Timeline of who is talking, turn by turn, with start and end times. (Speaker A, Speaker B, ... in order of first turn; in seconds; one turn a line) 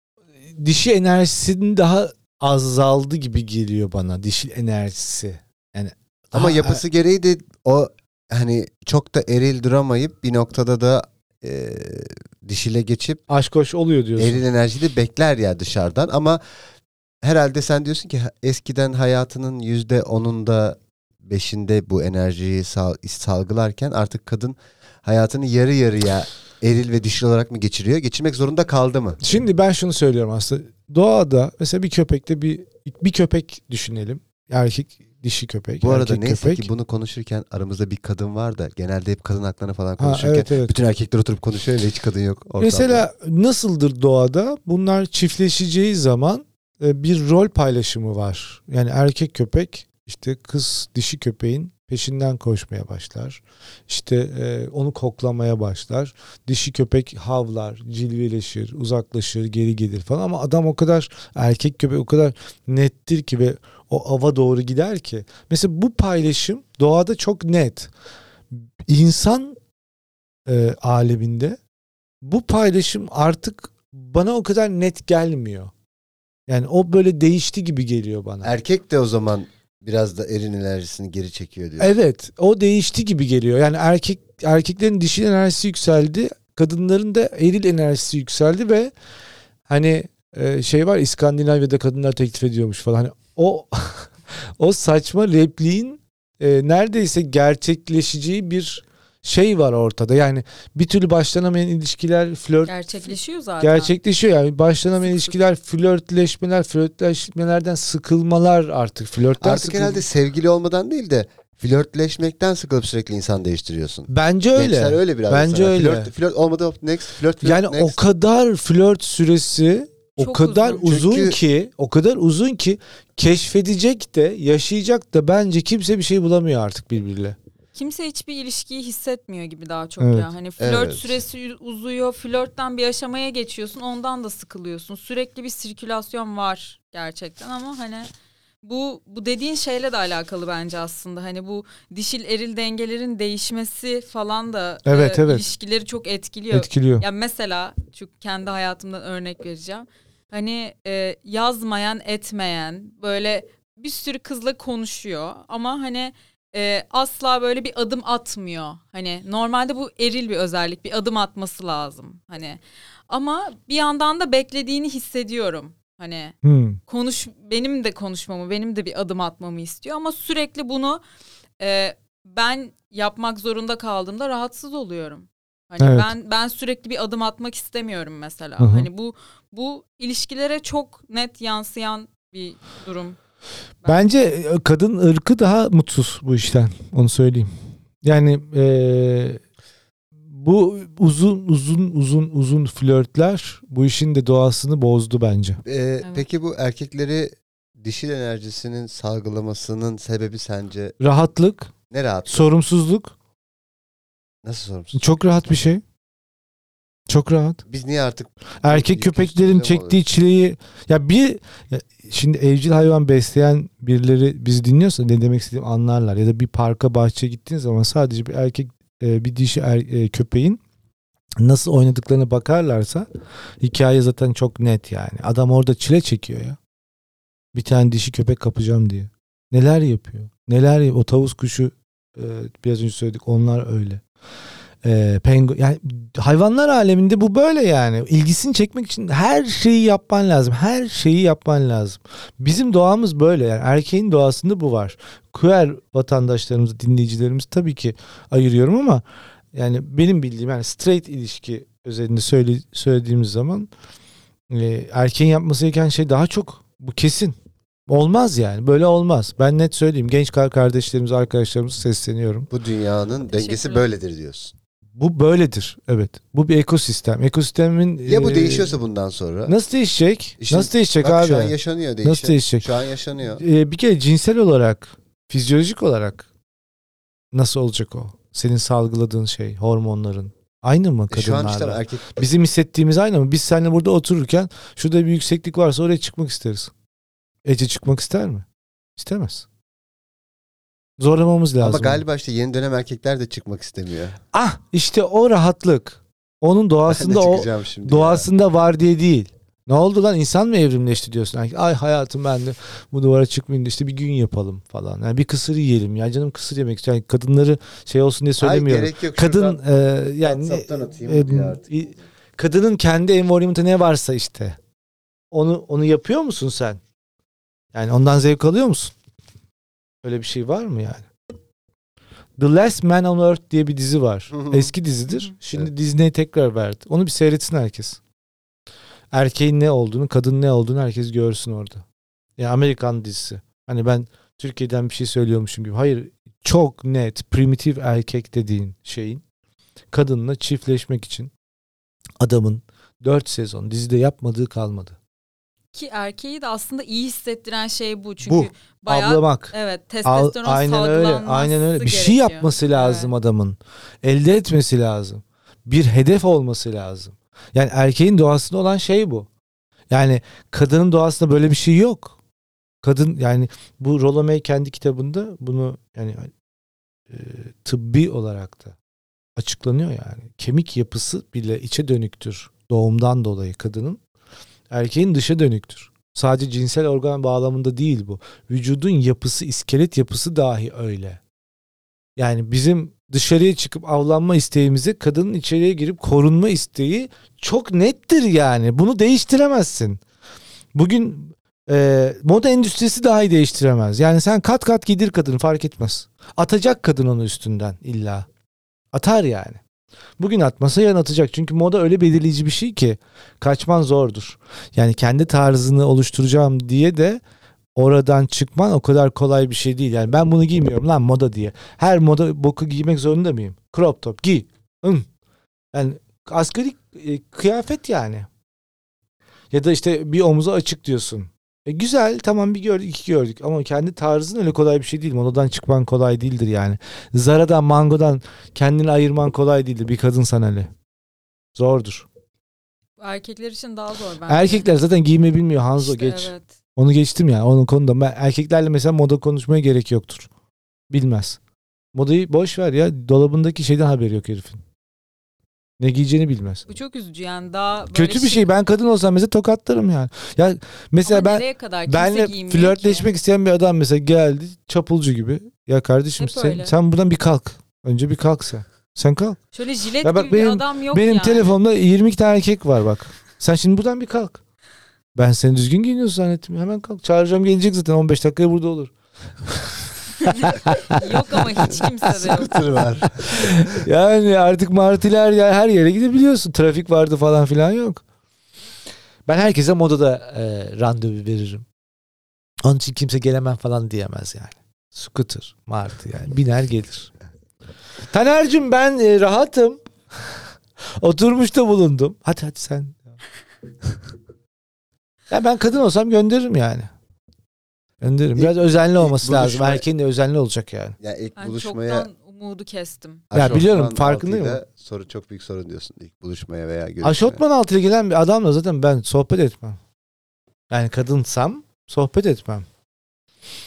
Speaker A: 0.5-6.8
Speaker B: 6.3-13.2
Speaker A: 13.3-14.4
Speaker B: 14.2-16.4
Speaker B: 17.2-29.2
Speaker A: 29.2-36.7
Speaker B: 35.8-43.1
Speaker A: 40.0-40.7
Speaker A: 42.6-67.9
Speaker A: 68.9-69.6
Speaker A: 70.5-71.6
Speaker A: 72.2-75.7
Speaker A: 76.5-78.5
Speaker B: 78.4-81.9
Speaker A: 81.8-88.9
Speaker A: 89.7-110.0
Speaker C: 102.7-103.9
Speaker C: 104.9-105.3
Speaker B: 109.4-118.0
Speaker A: 114.1-116.1
Speaker A: 117.4-127.3
Speaker C: 120.2-120.9
Speaker B: 120.8-121.4
Speaker C: 127.7-138.1
Speaker A: 130.0-130.3
Speaker B: 130.6-131.2
Speaker C: 138.6-166.4
Speaker A: 144.8-145.4
Speaker A: 146.5-147.0
Speaker A: 166.4-166.8
Speaker C: 166.9-171.0
Speaker C: 171.6-183.2
Speaker A: 175.8-176.1
Speaker A: 178.6-178.9
Speaker C: 183.8-184.1
Speaker A: 183.8-187.5
Speaker A: 188.0-189.4
Speaker A: 190.3-195.6
Speaker B: 195.6-200.9
Speaker A: 201.0-201.7
Speaker B: 201.9-202.5
Speaker A: 202.3-203.1
Speaker B: 204.4-205.0
Speaker A: 204.9-205.8
Speaker A: 207.1-207.6
Speaker B: 207.7-210.0
Speaker A: 208.6-220.6
Speaker A: 221.4-223.1
Speaker A: 223.6-226.6
Speaker A: 227.5-234.0
Speaker A: 234.8-253.7
Speaker A: 254.5-257.4
Speaker A: 257.9-262.5
Speaker B: 262.5-264.5
Speaker C: 263.3-263.9
Speaker A: 265.0-268.8
Speaker B: 268.1-269.5
Speaker A: 269.4-272.7
Speaker B: 270.4-273.4
Speaker A: 273.3-276.2
Speaker A: 277.3-286.7
Speaker B: 281.1-282.2
Speaker A: 287.4-288.4
Speaker A: 289.0-289.4
Speaker A: 291.0-292.0
Speaker B: 291.6-294.2
Speaker A: 294.3-314.6
Speaker B: 296.9-298.3
Speaker B: 308.4-309.6
Speaker B: 310.2-311.8
Speaker A: 315.3-316.8
Speaker A: 317.7-318.9
Speaker A: 320.0-321.1
Speaker A: 322.4-328.0
Speaker B: 324.3-324.7
Speaker C: 325.1-325.3
Speaker A: 329.1-331.8
Speaker A: 332.4-339.2
Speaker A: 339.9-341.3
Speaker A: 342.2-344.9
Speaker C: 345.7-353.1
Speaker A: 348.2-349.5
Speaker A: 350.0-359.3
Speaker A: 359.9-362.1
Speaker A: 362.8-366.3
Speaker A: 367.1-368.7
Speaker A: 369.4-374.0
Speaker A: 374.7-381.2
Speaker A: 382.2-390.0
Speaker A: 390.7-398.3
Speaker A: 398.9-399.6
Speaker A: 400.2-407.2
Speaker A: 407.8-415.1
Speaker A: 415.7-418.3
Speaker A: 419.5-430.7
Speaker A: 431.5-432.1
Speaker C: 433.0-434.7
Speaker A: 434.3-440.3
Speaker C: 435.8-436.5
Speaker A: 440.9-441.4
Speaker A: 441.9-444.6
Speaker A: 445.8-446.6
Speaker C: 446.7-448.5
Speaker A: 447.9-459.4
Speaker C: 451.0-453.1
Speaker C: 456.2-456.7
Speaker C: 459.5-461.5
Speaker A: 460.0-464.4
Speaker A: 465.1-468.9
Speaker A: 469.4-471.8
Speaker C: 470.3-472.6
Speaker B: 472.1-473.7
Speaker A: 473.3-478.0
Speaker A: 479.3-481.6
Speaker A: 482.6-487.1
Speaker A: 488.1-489.8
Speaker A: 491.0-493.1
Speaker A: 495.3-496.9
Speaker A: 498.0-500.9
Speaker B: 498.4-499.8
Speaker B: 501.0-502.1
Speaker C: 501.4-503.3
Speaker B: 503.3-507.4
Speaker A: 503.3-504.6
Speaker A: 507.0-509.8
Speaker A: 510.7-512.6